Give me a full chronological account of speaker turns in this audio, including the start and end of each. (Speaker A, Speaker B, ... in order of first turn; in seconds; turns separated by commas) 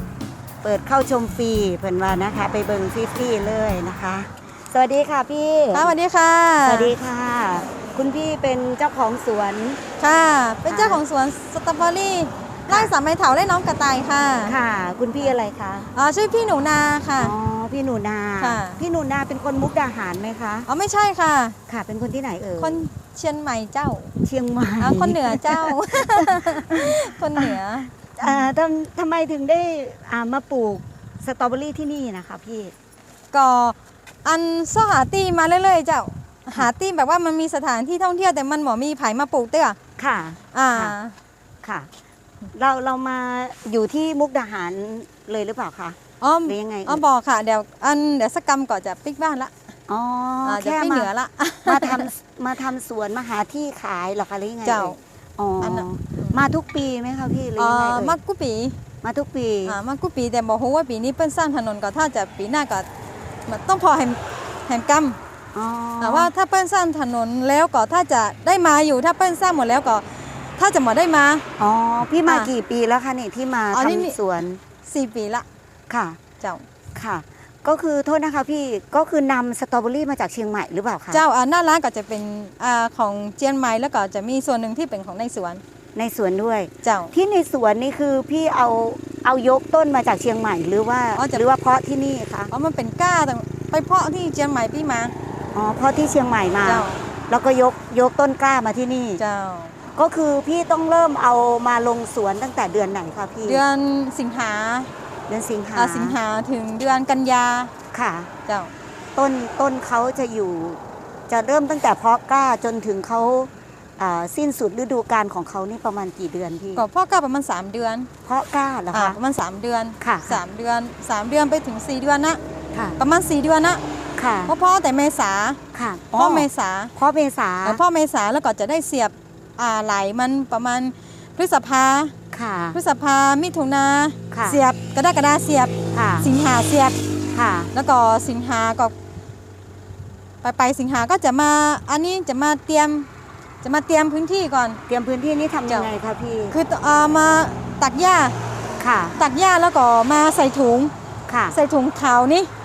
Speaker A: 0.6-5.9, Speaker B: 5.7-6.9, Speaker A: 6.6-9.8, Speaker B: 10.0-14.6, Speaker A: 10.7-11.0, Speaker A: 14.4-15.9, Speaker B: 15.9-17.3, Speaker A: 17.2-20.7, Speaker B: 18.4-18.8, Speaker B: 20.7-21.6, Speaker A: 21.7-22.8, Speaker B: 22.6-24.1, Speaker A: 24.2-27.6, Speaker B: 24.8-28.5, Speaker A: 28.2-32.7, Speaker B: 33.3-39.8, Speaker A: 40.0-41.0, Speaker B: 40.5-41.2, Speaker A: 41.6-41.9, Speaker A: 42.5-47.0, Speaker B: 46.2-49.5, Speaker A: 49.9-51.1, Speaker B: 50.5-52.1, Speaker A: 51.7-58.2, Speaker B: 54.6-55.0, Speaker B: 55.6-56.4, Speaker B: 57.6-58.8, Speaker A: 59.0-59.8, Speaker B: 59.7-62.9, Speaker B: 63.5-65.2, Speaker A: 65.5-66.3, Speaker B: 66.0-71.5, Speaker A: 71.6-74.6, Speaker B: 72.2-72.5, Speaker B: 73.7-74.2, Speaker B: 74.9-75.5, Speaker A: 75.9-76.2, Speaker A: 77.0-81.2, Speaker B: 81.1-85.6, Speaker A: 86.0-92.5, Speaker B: 86.8-87.1, Speaker B: 91.2-91.4, Speaker B: 92.5-95.1, Speaker A: 95.5-99.2, Speaker B: 96.6-97.0, Speaker B: 99.2-99.8, Speaker A: 99.9-103.6, Speaker B: 103.4-104.9, Speaker A: 105.3-106.2, Speaker B: 105.8-107.7, Speaker A: 107.9-108.3, Speaker B: 108.5-108.7, Speaker A: 109.2-116.8, Speaker B: 116.8-118.1, Speaker A: 118.2-119.2, Speaker B: 118.9-122.4, Speaker A: 120.0-120.4, Speaker A: 122.7-123.0, Speaker B: 123.0-123.8, Speaker A: 124.2-124.5, Speaker B: 124.5-125.6, Speaker A: 125.7-127.8, Speaker B: 126.2-126.9, Speaker B: 127.7-132.1, Speaker A: 132.3-132.8, Speaker B: 132.7-137.0, Speaker A: 134.3-134.6, Speaker A: 135.9-136.3, Speaker A: 137.3-137.7, Speaker B: 137.7-138.9, Speaker B: 140.4-143.1, Speaker B: 143.6-144.8, Speaker A: 144.9-146.6, Speaker B: 146.5-148.4, Speaker A: 148.8-149.2, Speaker B: 149.2-150.9, Speaker A: 151.3-151.6, Speaker B: 151.5-152.5